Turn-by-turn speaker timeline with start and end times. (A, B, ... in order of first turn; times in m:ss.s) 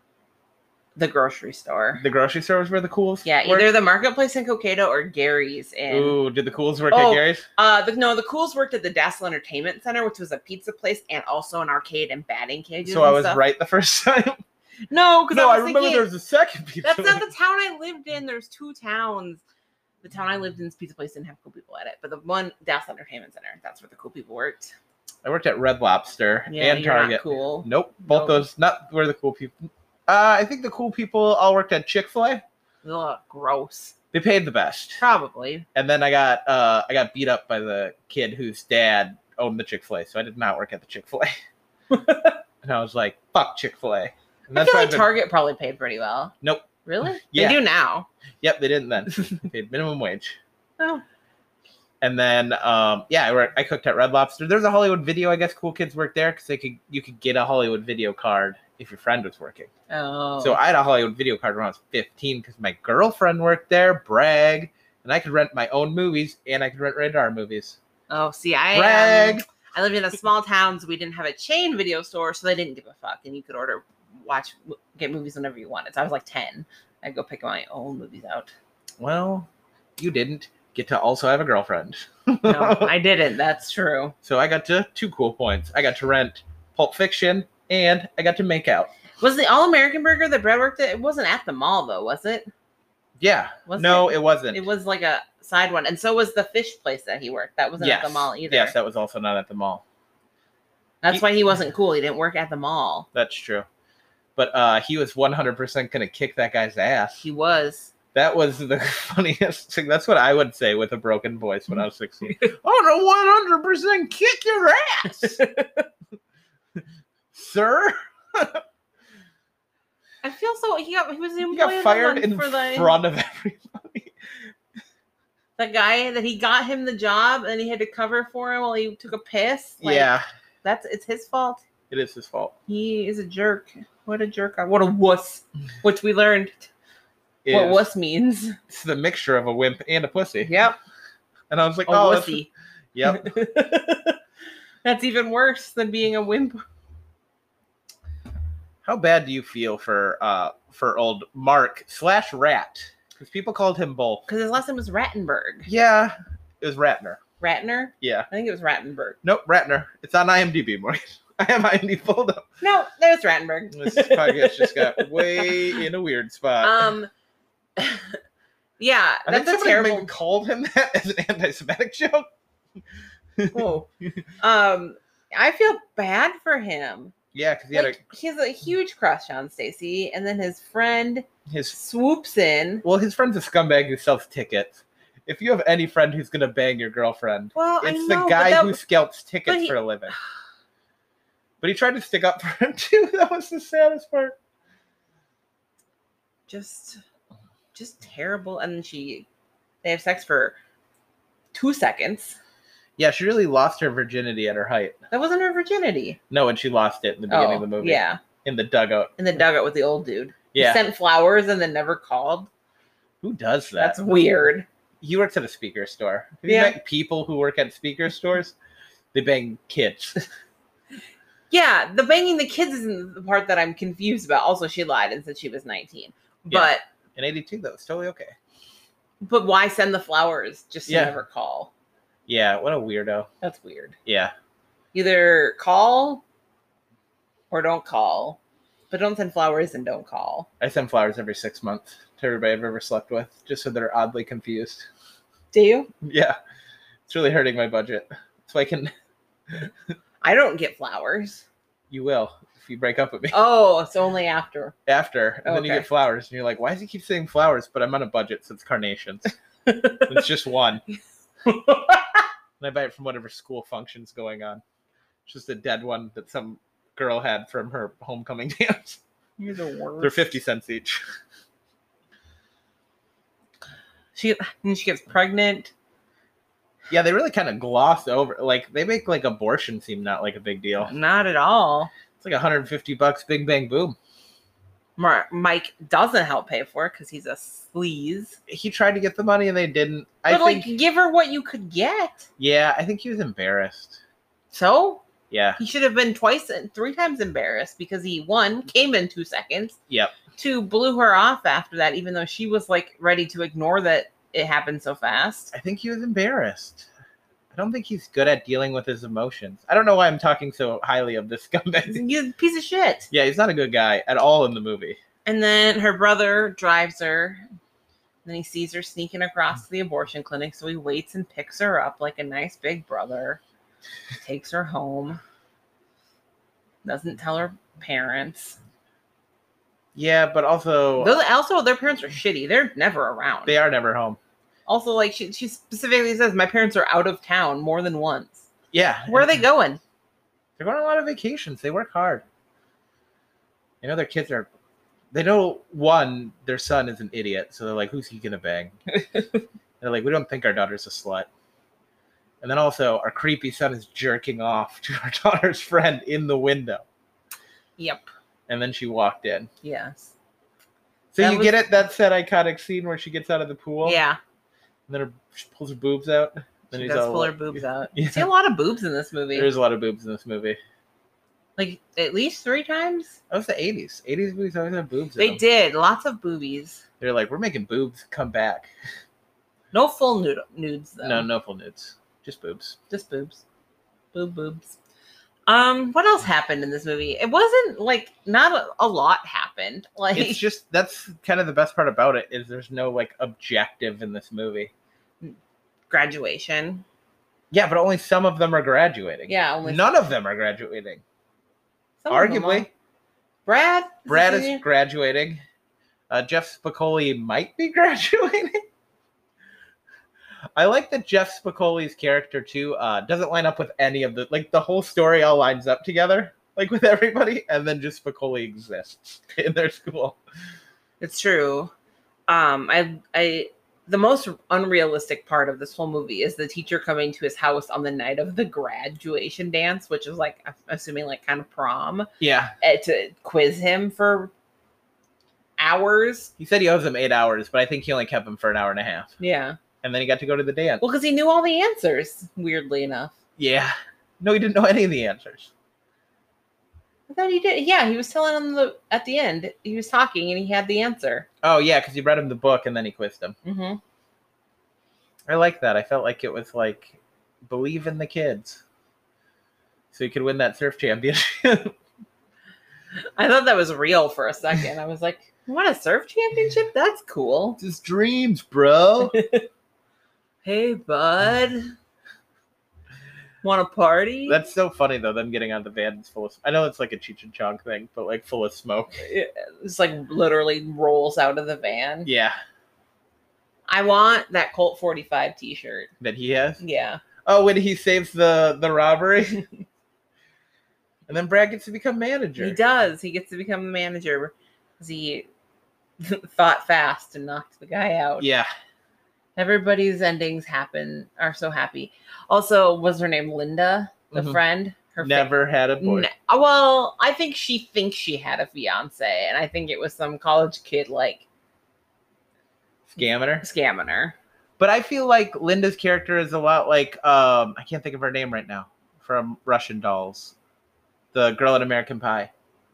0:01.0-0:02.0 A
0:02.0-0:03.7 B
0:03.2-0:06.2 A
0:05.9-0:07.5 B
0:06.9-0:13.4 A
0:12.8-0:14.4 B
0:14.9-0:16.1 A
0:15.3-0:17.3 B
0:16.8-0:19.4 A
0:20.0-0:24.7 A
0:25.2-0:32.4 B
0:26.5-0:28.4 A
0:32.8-0:34.0 A
0:34.1-0:35.0 B
0:35.0-0:35.6 A
0:35.8-0:41.4 B
0:41.9-0:42.4 A
0:42.6-0:45.1 B
0:44.5-0:46.3 A
0:46.8-0:48.1 A
0:47.3-0:47.6 B
0:48.4-0:50.4 B
0:52.0-0:59.7 B
0:59.9-1:00.6 A
1:00.4-1:07.8 B
1:08.1-1:18.5 A
1:08.7-1:09.5 B
1:19.0-1:22.9 B
1:22.4-1:24.2 A
1:24.2-1:28.9 B
1:29.2-1:32.5 A
1:33.2-1:34.6 B
1:33.7-1:38.7 A
1:37.8-1:39.8 B
1:41.0-1:43.1 A
1:43.1-1:43.7 B
1:44.4-1:47.2 B
1:47.2-1:47.9 A
1:48.1-1:55.4 B
1:55.2-1:55.8 A
1:57.3-1:58.6 B
2:00.2-2:02.9 A
2:01.5-2:04.4 B
2:05.6-2:10.1 A
2:09.8-2:10.2 B
2:10.6-2:11.6 A
2:11.9-2:12.6 B
2:12.7-2:16.7 A
2:17.4-2:17.9 B
2:17.5-2:18.6 A
2:18.7-2:20.5 B
2:20.4-2:20.8 A
2:21.5-2:23.3 B
2:21.9-2:22.5 A
2:23.0-2:24.2 A
2:24.8-2:26.6 A
2:28.8-2:34.3 B
2:34.3-2:35.7 A
2:35.7-2:37.2 B
2:37.4-2:39.2 A
2:38.0-2:38.3 B
2:39.2-2:42.5 B
2:42.6-2:45.8 A
2:43.7-2:46.9 B
2:46.6-2:47.1 A
2:47.8-2:48.2 A
2:48.8-2:50.1 A
2:49.3-2:52.3 B
2:53.4-2:54.2 B
2:53.5-2:53.9 A
2:54.4-2:57.1 A
2:57.3-2:58.0 B
2:57.7-3:02.8 A
3:01.5-3:01.8 B
3:02.8-3:10.2 B
3:07.6-3:08.8 A
3:09.5-3:10.2 A
3:11.6-3:14.4 B
3:16.5-3:17.0 A
3:17.7-3:19.3 A
3:19.8-3:20.6 A
3:21.5-3:22.4 A
3:23.0-3:25.0 B
3:25.1-3:26.2 A
3:26.3-3:29.1 B
3:27.3-3:28.2 A
3:29.2-3:32.5 A
3:30.5-3:30.8 B
3:33.2-3:34.0 B
3:33.8-3:34.7 A
3:35.0-3:38.6 B
3:36.5-3:36.8 A
3:39.1-3:40.3 B
3:41.5-3:46.8 A
3:46.5-3:48.3 B
3:49.2-3:51.7 A
3:50.9-3:51.1 B
3:52.3-3:53.3 B
3:53.4-3:54.0 A
3:54.1-3:54.3 B
3:54.9-3:56.2 A
3:57.5-3:58.4 A
3:58.9-4:00.5 A
4:00.6-4:04.9 B
4:05.5-4:05.9 A
4:06.0-4:06.4 B
4:07.1-4:08.9 B
4:10.2-4:11.4 A
4:11.9-4:13.4 B
4:13.3-4:14.8 A
4:14.9-4:19.3 B
4:15.4-4:15.9 A
4:19.7-4:20.2 A
4:20.1-4:20.8 B
4:21.4-4:22.2 A
4:22.6-4:24.6 B
4:25.3-4:29.0 B
4:29.4-4:30.4 A
4:30.0-4:31.0 B
4:34.2-4:35.7 A
4:36.9-4:40.9 B
4:40.8-4:41.9 A
4:42.2-4:44.0 B
4:45.0-4:48.4 A
4:48.5-4:50.7 B
4:50.3-4:52.3 A
4:52.4-4:54.0 B
4:54.5-4:55.0 A
4:55.3-4:55.6 B
4:55.6-4:59.8 A
4:59.9-5:00.2 B
5:00.4-5:05.5 A
5:05.5-5:06.9 B
5:07.5-5:12.0 B
5:11.9-5:13.1 A
5:13.1-5:15.0 B
5:15.3-5:17.4 A
5:18.2-5:23.4 A
5:24.2-5:25.2 A
5:26.8-5:28.6 A
5:30.0-5:31.2 B
5:31.0-5:33.6 A
5:33.5-5:34.2 B
5:34.7-5:38.5 A
5:38.7-5:39.4 B
5:39.1-5:39.8 A
5:40.6-5:42.2 B
5:43.8-5:44.5 B
5:45.1-5:48.8 B
5:49.8-5:51.3 B
5:52.4-5:56.8 B
5:57.8-5:58.1 A
5:58.5-5:59.5 B
5:59.6-6:00.1 A
6:01.1-6:04.0 B
6:01.2-6:01.6 A
6:03.8-6:04.2 A
6:04.9-6:08.3 B
6:06.7-6:09.5 A
6:09.3-6:10.6 B
6:11.6-6:13.2 A
6:13.3-6:15.4 B
6:15.2-6:16.8 A
6:17.0-6:18.7 B
6:19.7-6:21.3 A
6:21.0-6:22.8 B
6:22.9-6:23.4 A
6:24.1-6:24.8 A
6:25.5-6:30.4 A
6:30.1-6:34.7 B
6:35.9-6:36.8 A
6:37.5-6:41.0 B
6:39.3-6:40.0 A
6:42.0-6:42.7 A
6:42.1-6:42.7 B
6:43.5-6:44.6 A
6:44.1-6:45.4 B
6:46.1-6:48.6 B
6:50.6-7:00.2 B
7:01.0-7:01.7 A
7:02.3-7:12.1 A
7:12.2-7:12.5 B
7:12.6-7:14.3 A
7:15.6-7:16.3 A
7:16.4-7:19.1 B
7:19.2-7:19.6 A
7:19.8-7:20.8 B
7:20.8-7:23.1 A
7:23.4-7:25.5 B
7:27.1-7:31.3 A
7:31.4-7:33.4 B
7:33.4-7:33.8 A
7:35.3-7:38.6 B
7:39.9-7:41.8 B
7:43.2-7:47.6 A
7:47.6-7:49.1 B
7:49.0-7:49.5 A
7:50.4-7:51.7 A
7:53.4-7:54.4 A
7:54.3-7:59.1 B
7:59.0-8:02.1 A
8:02.0-8:02.4 B
8:03.7-8:05.9 A
8:06.0-8:06.6 B
8:06.6-8:07.0 A
8:07.2-8:09.4 B
8:11.1-8:12.6 B
8:12.4-8:15.3 A
8:16.0-8:18.3 A
8:18.2-8:18.5 B
8:19.4-8:31.2 A
8:24.1-8:24.4 B
8:25.0-8:26.1 B
8:32.9-8:33.4 B
8:33.4-8:34.2 A
8:34.6-8:40.3 B
8:41.1-8:42.3 B